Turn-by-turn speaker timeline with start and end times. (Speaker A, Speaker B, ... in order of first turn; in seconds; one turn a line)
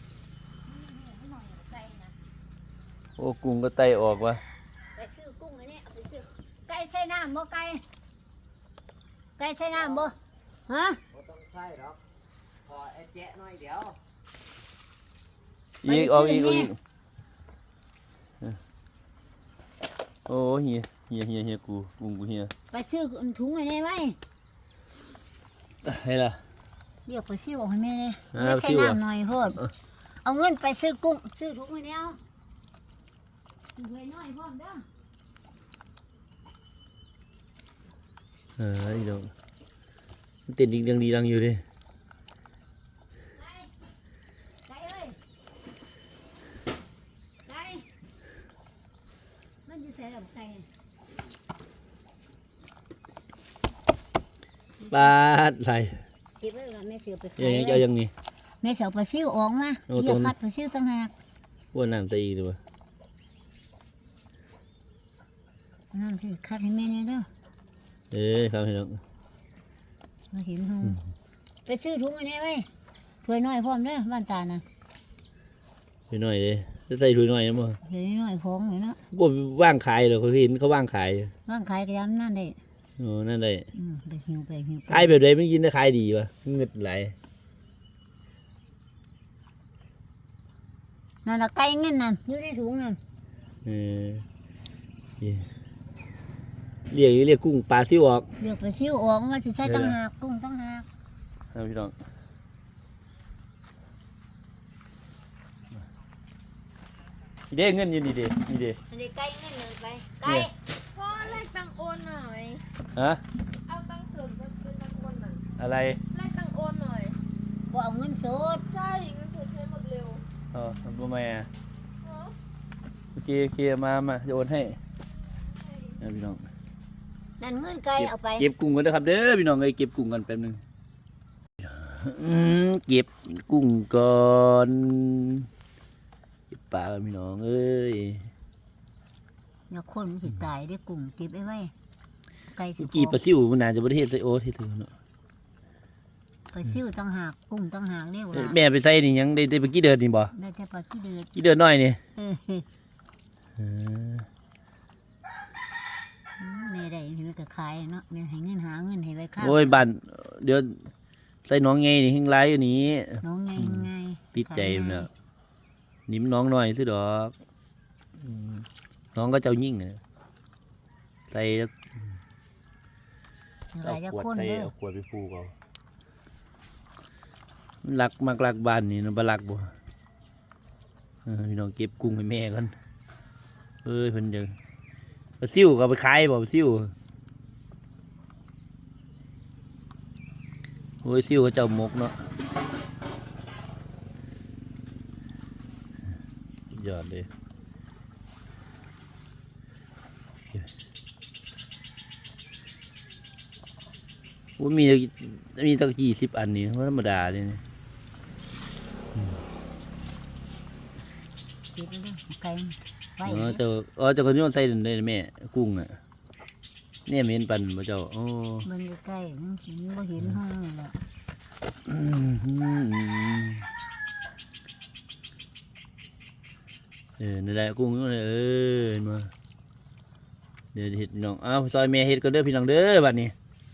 Speaker A: 0.7-2.1
Speaker B: 3.2-4.4
Speaker A: 5.0-7.8
Speaker A: 9.4-10.1
Speaker A: 10.7-11.0
Speaker C: 11.1-12.0
Speaker C: 12.7-14.0
Speaker B: 15.8-16.8
Speaker A: 15.8-16.7
Speaker B: 20.3-22.5
Speaker A: 22.7-24.2
Speaker B: 25.8-26.4
Speaker A: 27.1-29.6
Speaker B: 28.3-29.0
Speaker A: 30.2-32.2
Speaker A: 33.8-34.8
Speaker B: 38.6-39.3
Speaker B: 40.5-41.6
Speaker A: 43.4-43.7
Speaker A: 44.6-45.2
Speaker A: 47.5-47.9
Speaker A: 49.6-50.6
Speaker A: 54.8-55.1
Speaker B: 54.9-56.0
Speaker A: 56.4-57.8
Speaker B: 57.4-58.1
Speaker A: 58.6-61.1
Speaker B: 59.9-60.3
Speaker B: 61.7-62.6
Speaker A: 65.9-67.3
Speaker B: 68.1-69.0
Speaker A: 70.3-71.0
Speaker A: 71.7-72.7
Speaker A: 73.2-74.6
Speaker B: 76.1-77.8
Speaker A: 77.8-79.0
Speaker B: 79.1-81.3
Speaker A: 81.5-82.6
Speaker B: 83.0-83.7
Speaker A: 83.7-85.2
Speaker B: 84.9-87.1
Speaker A: 91.2-93.0
Speaker B: 93.6-94.2
Speaker B: 95.2-95.5
Speaker B: 96.9-98.2
Speaker A: 98.4-100.9
Speaker B: 99.6-100.0
Speaker B: 101.5-101.9
Speaker B: 107.5-108.8
Speaker A: 108.9-110.5
Speaker B: 110.2-110.5
Speaker D: 110.9-112.6
Speaker A: 111.9-112.4
Speaker B: 112.9-113.2
Speaker D: 113.7-115.4
Speaker B: 115.6-116.0
Speaker D: 116.1-117.2
Speaker A: 117.7-118.6
Speaker D: 118.7-120.2
Speaker B: 120.5-121.5
Speaker D: 122.0-122.3
Speaker B: 123.1-124.8
Speaker B: 126.0-126.4
Speaker A: 127.4-128.5
Speaker B: 128.0-130.6
Speaker B: 131.8-135.5
Speaker B: 136.5-138.3
Speaker A: 139.7-141.7
Speaker A: 142.5-143.2
Speaker B: 142.8-144.9
Speaker A: 146.5-148.6
Speaker B: 148.3-150.3
Speaker A: 150.3-151.5
Speaker B: 151.3-152.0
Speaker A: 152.2-152.7
Speaker B: 153.6-154.2
Speaker A: 156.4-159.8
Speaker B: 159.4-160.9
Speaker B: 161.4-165.1
Speaker A: 163.2-165.1
Speaker B: 166.1-167.3
Speaker B: 168.2-170.0
Speaker B: 171.3-171.7
Speaker A: 173.7-174.7
Speaker B: 173.8-175.5
Speaker B: 177.8-179.7
Speaker B: 181.2-182.7
Speaker B: 183.8-184.6
Speaker B: 185.4-186.9
Speaker B: 191.0-192.1
Speaker B: 196.7-197.3
Speaker B: 204.6-207.6
Speaker A: 211.7-213.6
Speaker B: 213.2-215.9
Speaker B: 217.1-218.7
Speaker A: 218.6-220.9
Speaker B: 221.8-223.7
Speaker B: 227.2-229.3
Speaker B: 230.7-233.3